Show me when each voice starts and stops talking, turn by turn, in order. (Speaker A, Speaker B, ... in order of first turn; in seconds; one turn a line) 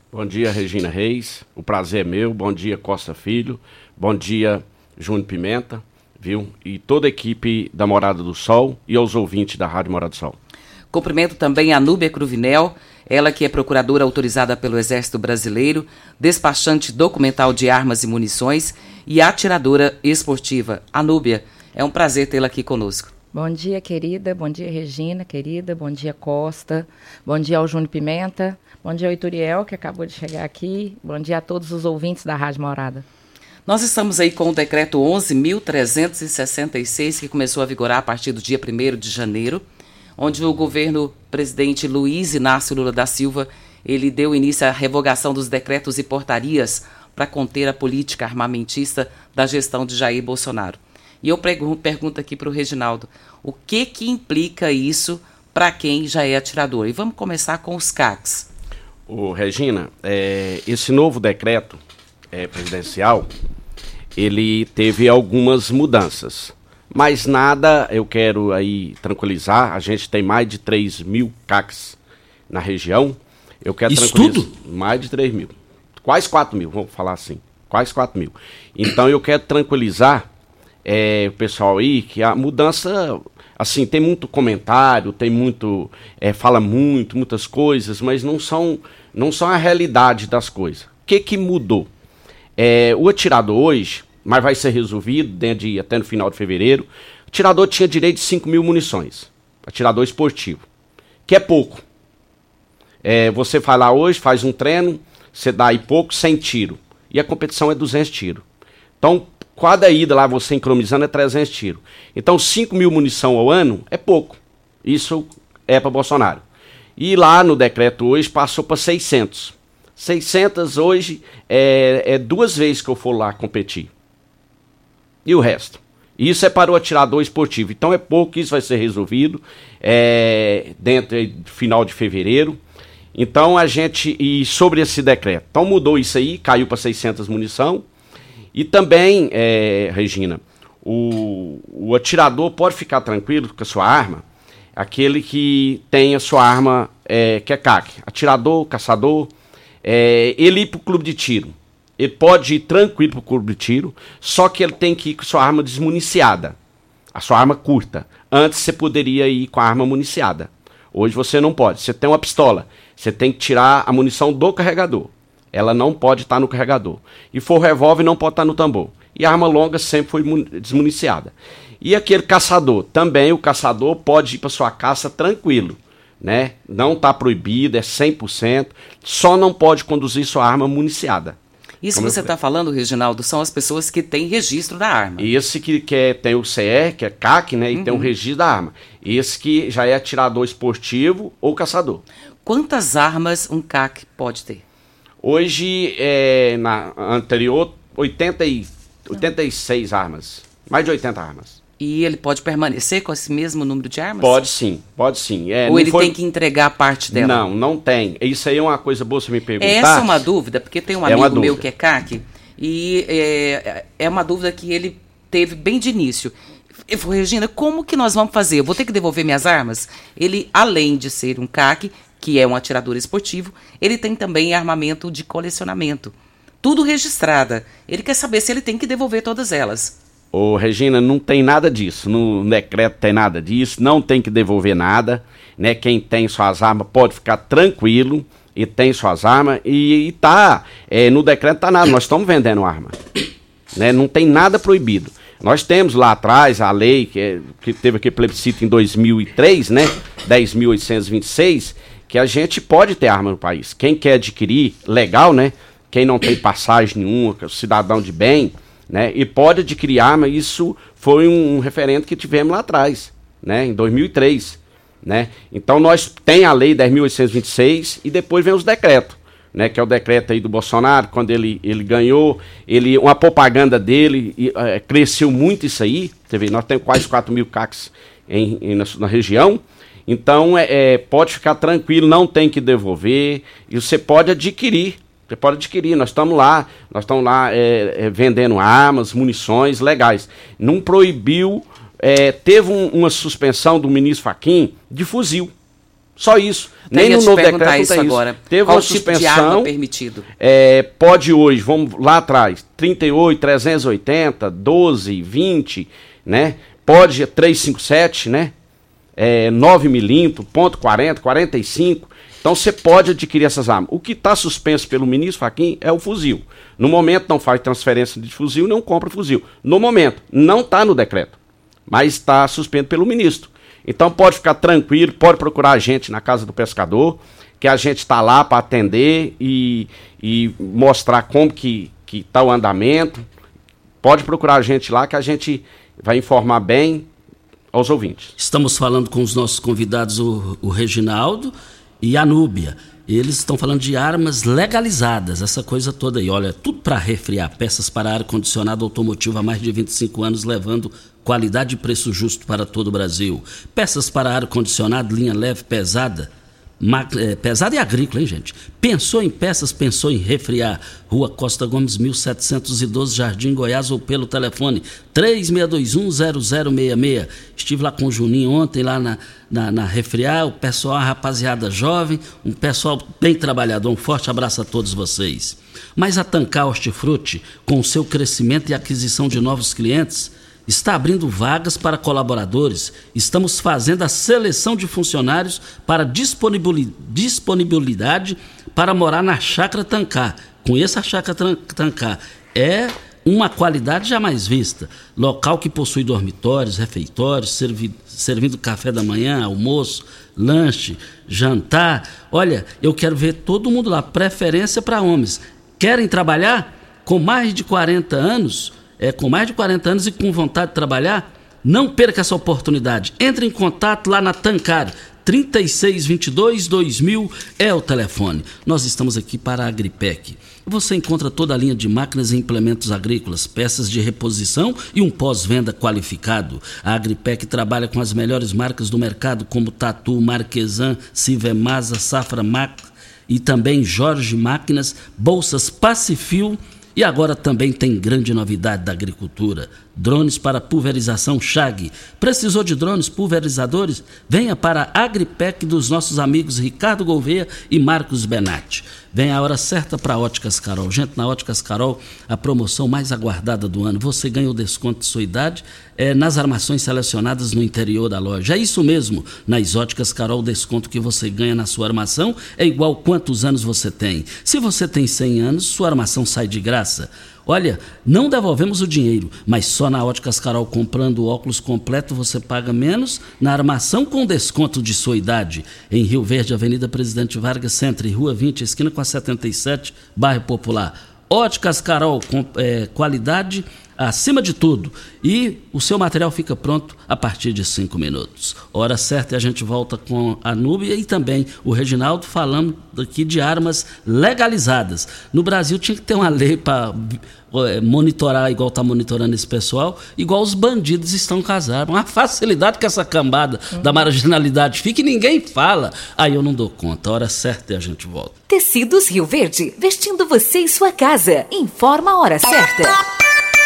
Speaker A: 0.1-10.4
Speaker B: 10.9-23.1
Speaker C: 23.3-33.0
Speaker B: 33.7-39.6
Speaker B: 40.2-58.5
Speaker A: 59.1-61.8
Speaker A: 62.3-63.3
Speaker A: 64.2-72.0
Speaker A: 72.5-80.3
Speaker D: 73.9-74.5
Speaker A: 80.8-91.9
Speaker A: 92.6-100.7
Speaker A: 101.3-101.8
Speaker A: 103.0-108.4
Speaker A: 109.0-116.4
Speaker A: 117.0-123.9
Speaker A: 125.2-132.6
Speaker A: 133.1-137.8
Speaker A: 138.5-144.2
Speaker A: 144.8-149.3
Speaker A: 149.8-156.6
Speaker A: 157.1-181.4
Speaker B: 181.8-185.3
Speaker A: 181.9-182.3
Speaker A: 185.2-192.0
Speaker B: 187.7-188.1
Speaker B: 192.4-194.6
Speaker A: 195.2-201.6
Speaker B: 201.8-204.4
Speaker A: 204.2-206.2
Speaker B: 205.7-207.4
Speaker A: 207.1-210.2
Speaker B: 209.6-216.4
Speaker A: 211.1-211.6
Speaker B: 216.9-230.0
Speaker A: 230.3-243.0
Speaker A: 243.7-295.5
Speaker A: 296.2-299.7
Speaker B: 296.9-300.3
Speaker A: 300.4-308.5
Speaker A: 309.2-321.4
Speaker A: 321.9-333.3
Speaker A: 334.0-337.1
Speaker A: 337.7-338.4
Speaker D: 338.4-508.4
Speaker E: 508.5-513.0